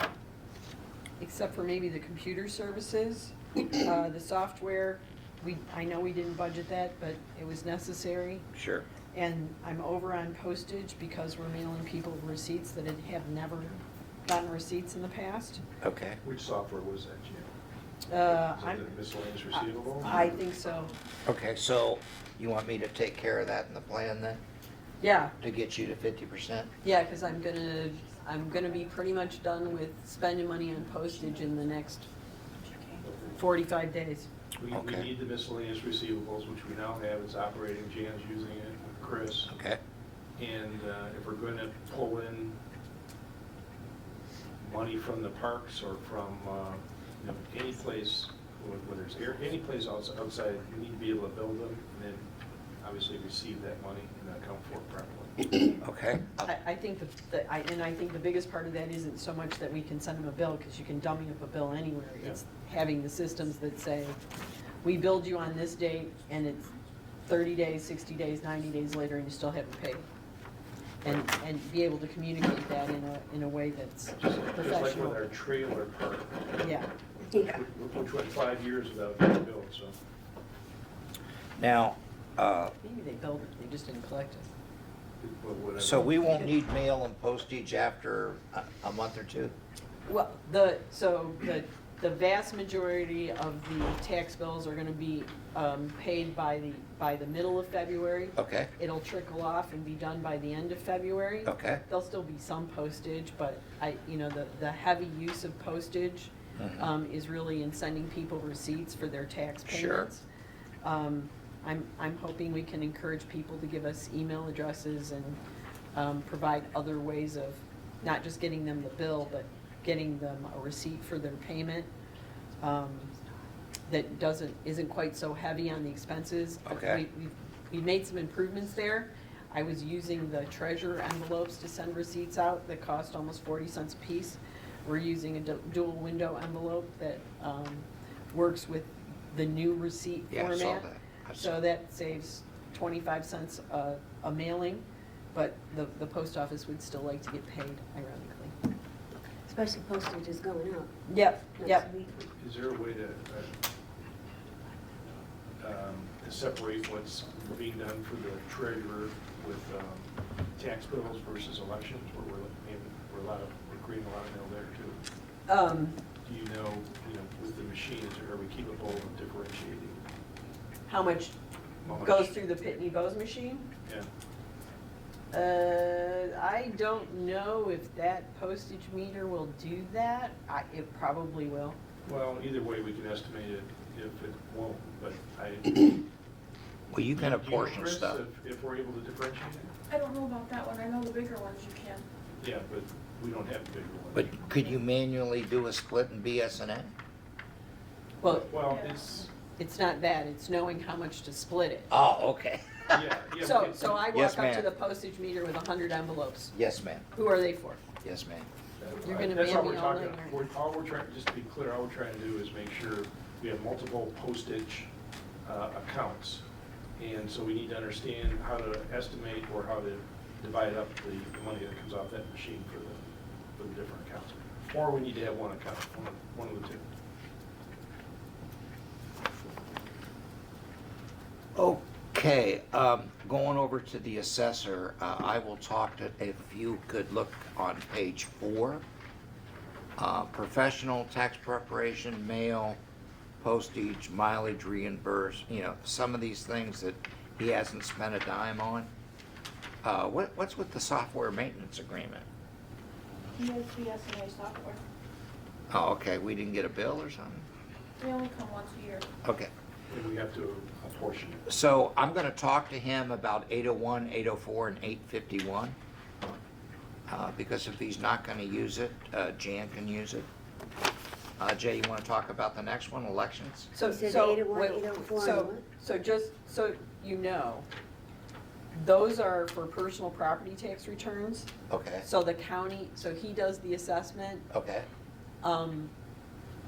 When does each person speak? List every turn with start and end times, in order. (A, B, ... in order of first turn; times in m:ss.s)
0:01.2-0:08.4 A
0:08.5-0:08.8 B
0:09.1-0:15.6 A
0:15.8-0:16.2 B
0:16.2-0:17.5 C
0:18.1-0:18.9 A
0:18.2-0:20.3 C
0:20.0-0:20.9 A
0:21.2-0:24.4 B
0:25.0-0:25.3 A
0:25.4-0:26.7 B
0:26.8-0:32.0 A
0:33.0-0:33.3 C
0:33.3-0:34.3 A
0:34.6-0:39.5 C
0:34.7-0:35.1 B
0:39.5-0:39.8 B
0:40.4-0:42.6 C
0:44.6-0:52.2 C
0:52.8-0:55.6 C
0:55.8-0:56.5 B
0:56.4-1:04.2 A
1:04.8-1:06.7 A
1:07.2-1:10.1 A
1:11.0-1:15.2 A
1:14.2-1:16.4 C
1:16.6-1:16.9 A
1:17.4-1:20.0 C
1:21.6-1:22.7 B
1:22.8-1:24.5 A
1:25.2-1:26.1 C
1:25.8-1:29.5 B
1:30.0-1:50.2 A
1:38.4-1:38.7 B
1:41.4-1:41.8 B
1:46.6-1:46.9 B
1:49.7-1:50.1 B
1:50.8-1:55.4 A
1:55.9-2:01.9 A
2:02.6-2:03.1 A
2:03.9-2:28.5 A
2:06.7-2:07.0 B
2:20.3-2:21.5 B
2:29.4-2:30.9 D
2:31.0-2:31.9 A
2:31.6-2:32.1 D
2:32.3-2:33.6 C
2:35.6-2:45.0 C
2:45.5-2:46.0 A
2:46.2-2:50.0 C
2:50.9-2:51.3 A
2:51.8-2:52.3 C
2:52.0-2:53.7 A
2:53.8-2:54.1 C
2:55.3-3:01.8 A
3:02.0-3:06.0 C
3:06.9-3:08.2 B
3:07.1-3:09.7 C
3:09.9-3:12.0 E
3:12.4-3:14.4 C
3:14.1-3:16.9 B
3:18.2-3:18.5 A
3:18.2-3:19.3 C
3:18.6-3:19.0 E
3:19.6-3:21.9 A
3:21.9-3:23.0 B
3:22.9-3:24.0 C
3:23.4-3:26.5 A
3:24.1-3:24.7 B
3:26.5-3:27.0 B
3:27.1-3:27.8 A
3:28.0-3:28.5 B
3:28.8-3:34.9 C
3:29.0-3:30.4 A
3:35.4-3:36.4 C
3:37.0-3:43.0 C
3:43.6-3:46.8 C
3:51.6-3:58.8 B
4:00.0-4:02.8 B
4:03.4-4:08.9 B
4:09.8-4:12.2 B
4:13.4-4:14.8 E
4:15.7-4:17.5 B
4:18.0-4:19.0 E
4:19.2-4:19.5 B
4:19.9-4:21.4 C
4:21.5-4:25.8 B
4:27.1-4:30.2 B
4:31.4-4:33.7 B
4:33.7-4:37.6 A
4:33.8-4:35.6 D
4:38.7-4:41.5 A
4:41.7-4:42.0 B
4:42.0-4:44.5 A
4:44.5-4:44.9 B
4:45.4-4:45.9 A